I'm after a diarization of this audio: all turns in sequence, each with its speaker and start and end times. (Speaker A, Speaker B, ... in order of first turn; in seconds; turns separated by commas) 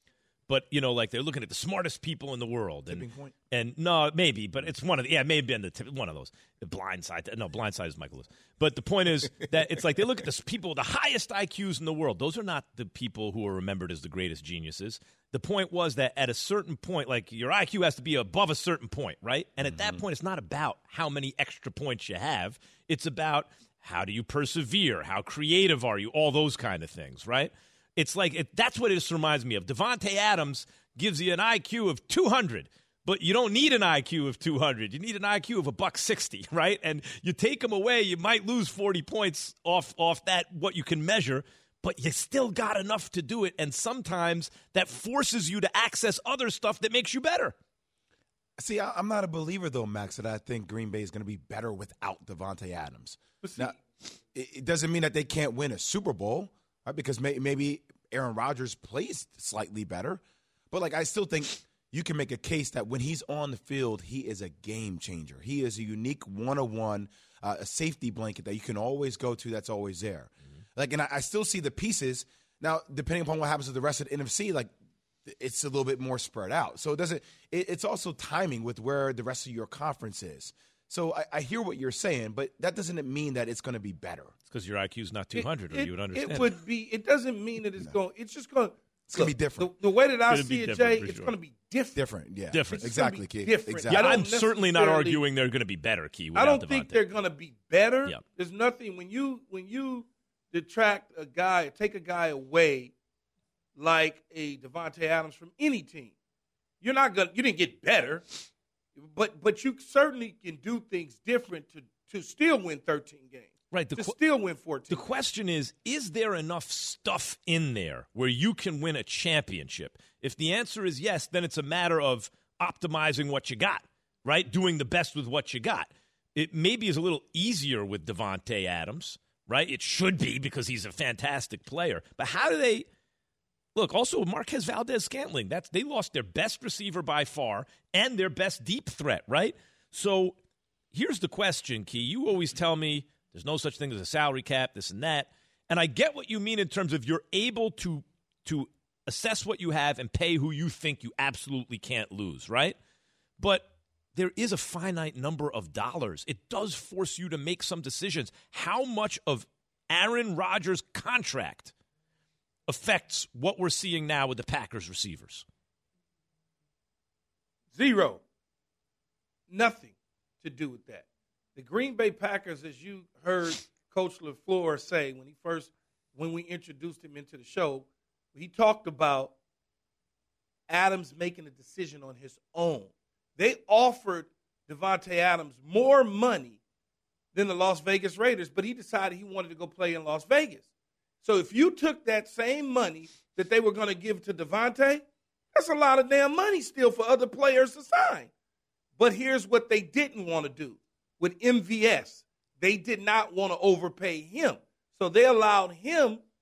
Speaker A: 0.5-47.5, Speaker B: 2.9-3.4, Speaker B: 19.6-20.0, Speaker B: 48.6-53.8, Speaker C: 53.4-53.7, Speaker B: 54.3-74.7, Speaker B: 75.3-84.3, Speaker A: 84.5-86.5, Speaker C: 85.3-92.0, Speaker B: 89.1-89.7, Speaker A: 90.3-91.3, Speaker B: 92.0-94.2, Speaker A: 92.5-92.9, Speaker C: 92.8-95.2, Speaker A: 93.9-97.0, Speaker C: 96.3-102.9, Speaker C: 103.8-106.1, Speaker C: 106.8-115.1, Speaker A: 113.7-114.2, Speaker A: 114.9-132.9, Speaker A: 133.8-140.4, Speaker A: 140.9-152.8, Speaker A: 153.4-161.7, Speaker A: 162.7-165.5, Speaker C: 167.7-168.2, Speaker C: 169.5-179.3, Speaker C: 180.7-186.6, Speaker C: 187.3-190.7, Speaker C: 191.2-198.3, Speaker C: 199.0-206.2